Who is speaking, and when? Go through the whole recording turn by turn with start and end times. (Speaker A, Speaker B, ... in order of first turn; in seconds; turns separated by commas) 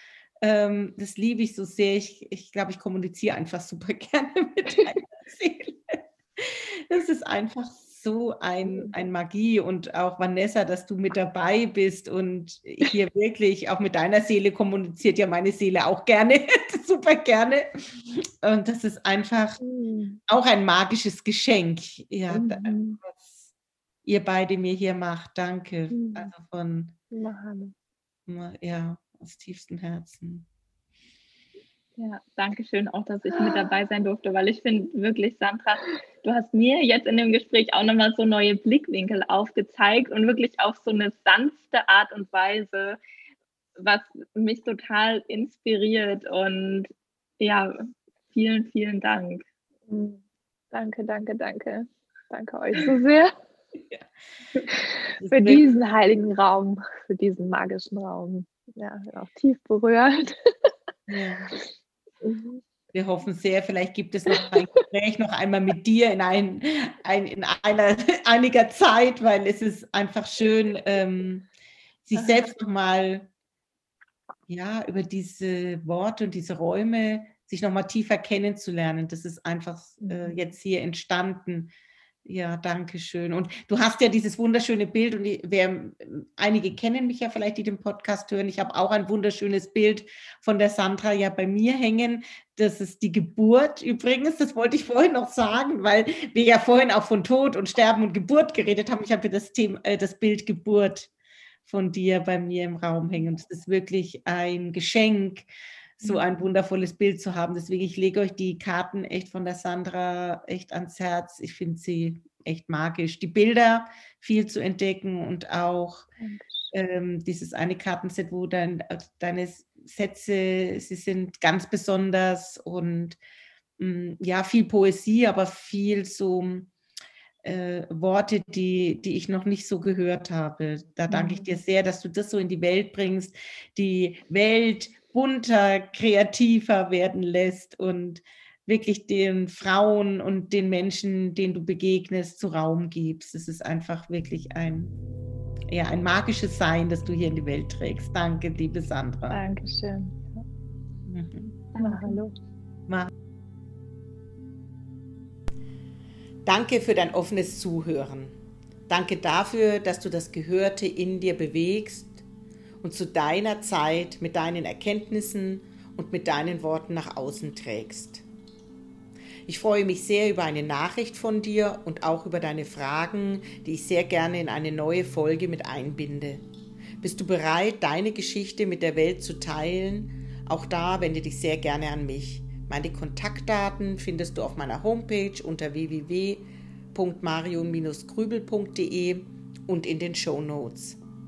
Speaker A: 0.4-19.6, Speaker B: 19.6-20.2, Speaker A: 20.3-23.5, Speaker B: 22.3-23.0, Speaker A: 24.1-27.0, Speaker B: 25.9-26.3, Speaker B: 27.1-27.7, Speaker A: 28.3-30.5, Speaker C: 32.0-43.0, Speaker C: 43.8-49.4, Speaker B: 49.9-53.3, Speaker A: 55.2-55.6, Speaker B: 55.3-60.5, Speaker A: 61.1-61.5, Speaker B: 62.2-62.6, Speaker A: 62.9-71.5, Speaker B: 64.3-64.6, Speaker A: 72.1-73.3, Speaker A: 74.5-81.7, Speaker B: 80.0-80.4, Speaker A: 82.2-101.1, Speaker A: 101.7-105.5, Speaker A: 106.0-116.1, Speaker B: 116.2-116.7, Speaker A: 116.7-123.2, Speaker A: 123.8-126.7, Speaker A: 127.4-144.9, Speaker B: 131.1-131.5, Speaker A: 145.7-149.4, Speaker B: 149.3-150.4, Speaker A: 151.1-151.6, Speaker B: 151.8-152.3, Speaker C: 151.8-152.2, Speaker A: 156.4-158.3, Speaker A: 158.9-162.2, Speaker A: 162.8-168.2, Speaker A: 169.5-176.4, Speaker A: 177.0-191.0